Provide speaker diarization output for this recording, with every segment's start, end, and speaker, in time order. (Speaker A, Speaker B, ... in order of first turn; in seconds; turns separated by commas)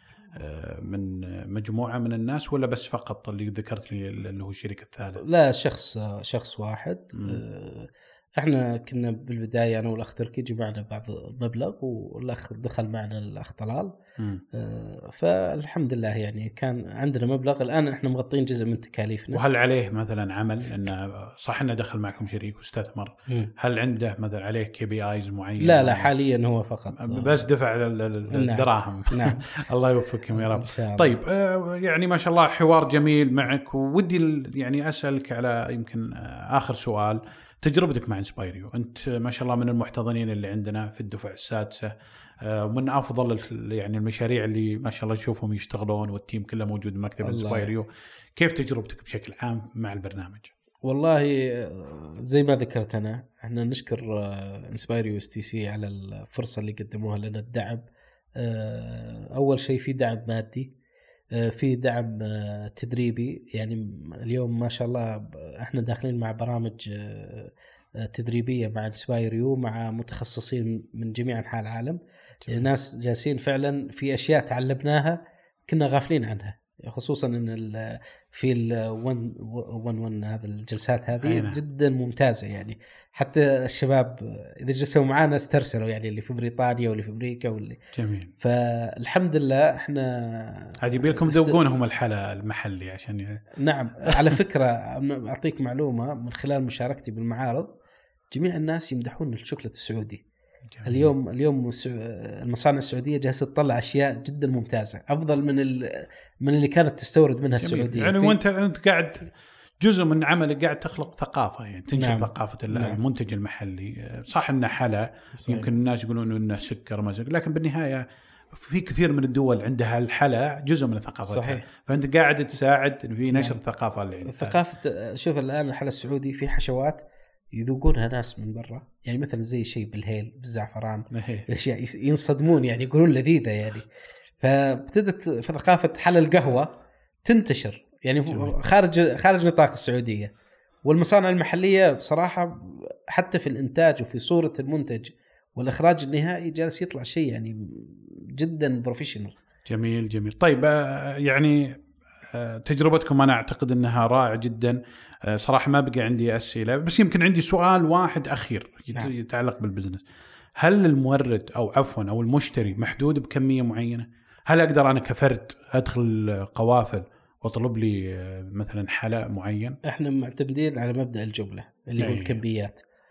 Speaker A: 0.3-5.2, Speaker B: 5.2-13.9, Speaker A: 7.2-7.4, Speaker A: 14.2-14.4, Speaker B: 14.5-19.4, Speaker A: 19.3-26.1, Speaker B: 25.6-27.4, Speaker A: 26.9-50.5, Speaker B: 28.3-29.5, Speaker B: 30.3-31.2, Speaker B: 47.2-47.7, Speaker B: 50.8-57.8, Speaker B: 58.4-60.7, Speaker B: 61.3-87.8, Speaker A: 81.2-81.6, Speaker A: 87.9-88.3, Speaker B: 88.4-91.6, Speaker A: 90.8-93.4, Speaker B: 93.5-97.7, Speaker A: 94.0-94.3, Speaker B: 98.3-100.2, Speaker A: 100.7-101.1, Speaker B: 100.8-108.4, Speaker A: 107.6-124.6, Speaker B: 111.9-113.0, Speaker B: 115.3-115.7, Speaker B: 121.2-121.6, Speaker B: 123.3-123.6, Speaker B: 124.2-133.9, Speaker A: 131.1-131.4, Speaker B: 134.4-140.3, Speaker A: 138.3-138.6, Speaker B: 140.8-149.4, Speaker A: 149.7-160.0, Speaker A: 160.6-169.8, Speaker B: 169.8-172.8, Speaker A: 172.0-172.4